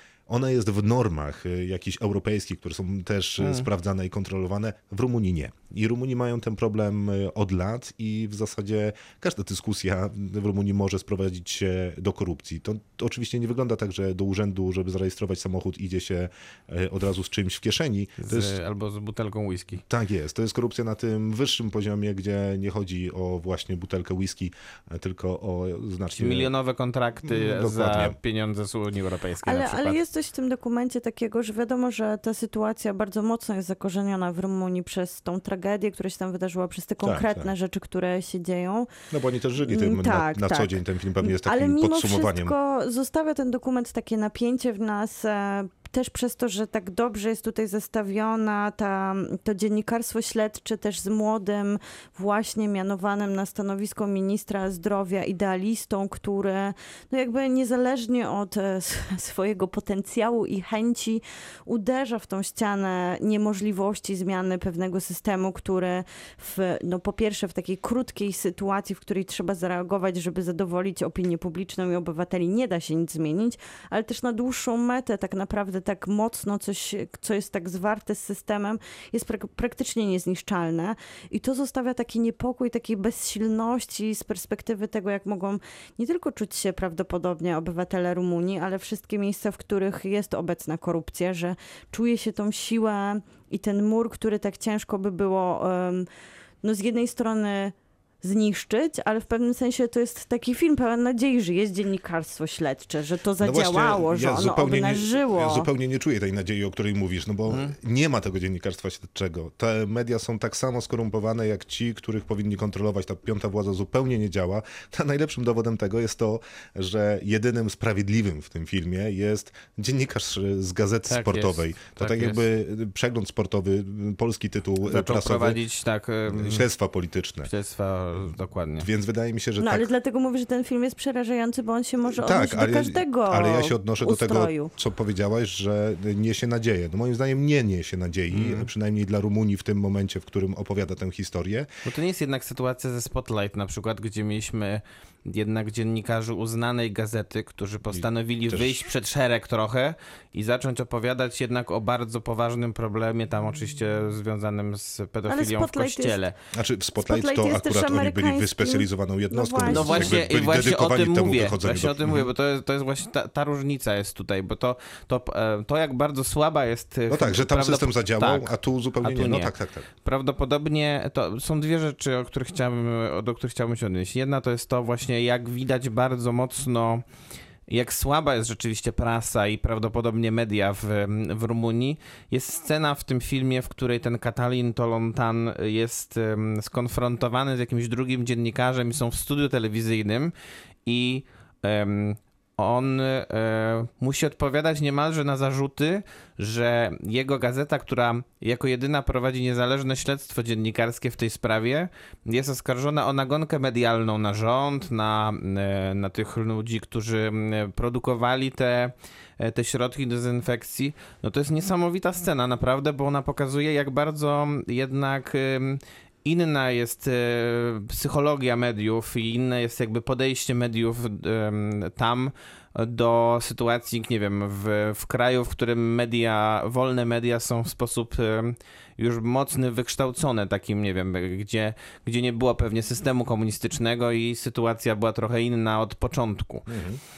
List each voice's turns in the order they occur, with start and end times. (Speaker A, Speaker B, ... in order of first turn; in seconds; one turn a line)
Speaker A: 0.3-18.6
Speaker B: 3.4-3.7
Speaker B: 18.2-19.8
Speaker A: 19.9-26.5
Speaker B: 26.2-30.0
Speaker A: 27.2-28.2
Speaker C: 29.4-38.9
Speaker A: 37.0-37.5
Speaker A: 39.1-42.5
Speaker C: 39.6-96.1
Speaker C: 96.6-105.7
Speaker A: 103.4-125.6
Speaker B: 107.5-107.8
Speaker B: 121.1-122.4
Speaker B: 124.8-126.7
Speaker A: 126.3-127.5
Speaker B: 127.4-128.9
Speaker A: 128.8-129.9
Speaker C: 129.6-134.7
Speaker A: 132.1-141.7
Speaker B: 138.3-138.7
Speaker B: 141.8-156.3
Speaker A: 147.9-148.8
Speaker C: 155.3-156.2
Speaker A: 156.5-162.3
Speaker C: 157.0-160.2
Speaker B: 159.7-169.5
Speaker A: 167.1-169.9
Speaker B: 170.0-177.0
Speaker B: 177.7-190.3
Speaker B: 190.8-236.7
Speaker A: 236.7-237.0